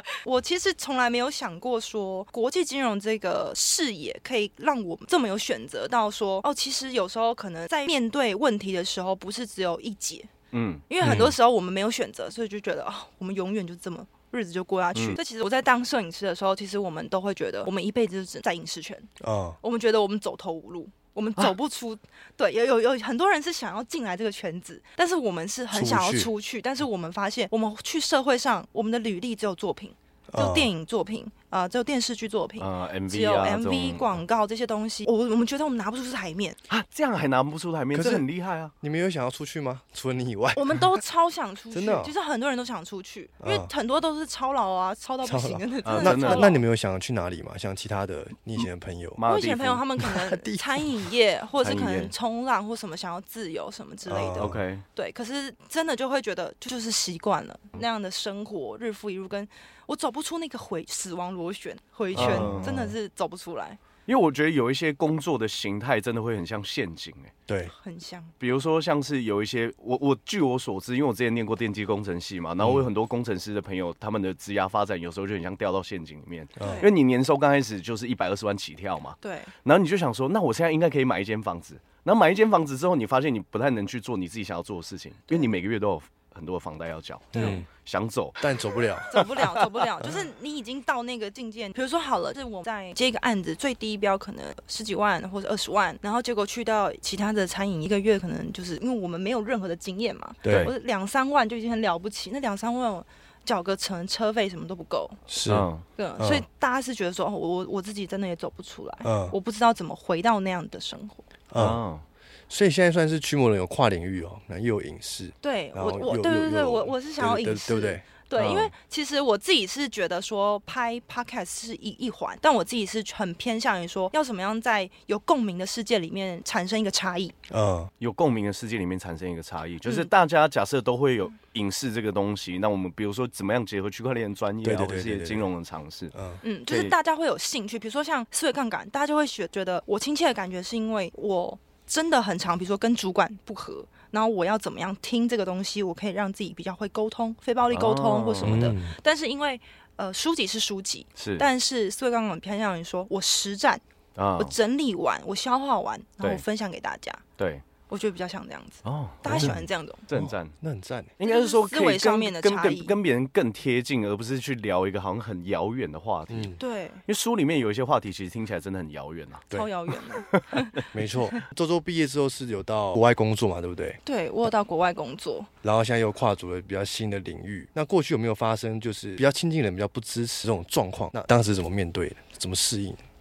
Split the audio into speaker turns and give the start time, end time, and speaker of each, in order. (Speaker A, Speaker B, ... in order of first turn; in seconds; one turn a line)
Speaker A: 0.2-10.3
Speaker B: 10.5-11.3
Speaker A: 10.9-19.1
Speaker C: 11.0-11.3
Speaker C: 19.2-19.6
Speaker A: 19.6-36.6
Speaker C: 25.7-26.3
Speaker C: 30.3-30.7
Speaker B: 32.6-34.2
Speaker B: 36.7-38.7
Speaker C: 37.9-38.2
Speaker C: 38.8-40.9
Speaker A: 40.5-46.6
Speaker C: 41.7-42.1
Speaker C: 43.4-43.7
Speaker C: 45.2-49.2
Speaker B: 45.8-46.5
Speaker B: 49.2-49.8
Speaker A: 49.2-63.8
Speaker C: 50.0-52.1
Speaker C: 54.0-54.6
Speaker B: 54.4-54.8
Speaker C: 62.1-62.9
Speaker B: 62.1-62.7
Speaker B: 64.0-67.3
Speaker C: 67.5-67.7
Speaker A: 67.7-68.3
Speaker B: 68.4-88.6
Speaker A: 76.6-76.9
Speaker C: 76.6-76.9
Speaker A: 79.2-79.5
Speaker C: 87.3-87.7
Speaker A: 87.3-87.6
Speaker C: 88.4-89.2
Speaker A: 89.1-105.2
Speaker C: 100.4-100.7
Speaker B: 100.5-100.7
Speaker C: 105.3-105.7
Speaker B: 105.5-105.8
Speaker A: 106.0-111.2
Speaker C: 106.2-106.4
Speaker C: 109.0-109.3
Speaker C: 111.5-111.8
Speaker B: 111.6-112.0
Speaker C: 112.5-118.0
Speaker A: 115.4-127.3
Speaker B: 118.3-118.7
Speaker C: 127.5-127.9
Speaker B: 128.0-136.1
Speaker A: 129.8-130.1
Speaker C: 134.6-135.4
Speaker C: 136.1-136.4
Speaker A: 136.4-153.8
Speaker B: 136.7-136.9
Speaker B: 147.7-148.7
Speaker C: 148.4-148.9
Speaker B: 151.2-151.5
Speaker B: 154.2-154.5
Speaker A: 154.4-157.2
Speaker B: 157.4-157.6
Speaker A: 157.9-160.0
Speaker B: 158.8-159.6
Speaker C: 159.2-161.1
Speaker B: 160.1-160.5
Speaker B: 161.2-169.5
Speaker A: 161.2-162.9
Speaker C: 166.3-166.6
Speaker A: 166.6-167.0
Speaker A: 169.5-170.8
Speaker B: 170.3-170.8
Speaker C: 170.9-174.0
Speaker A: 174.0-175.5
Speaker C: 175.6-183.0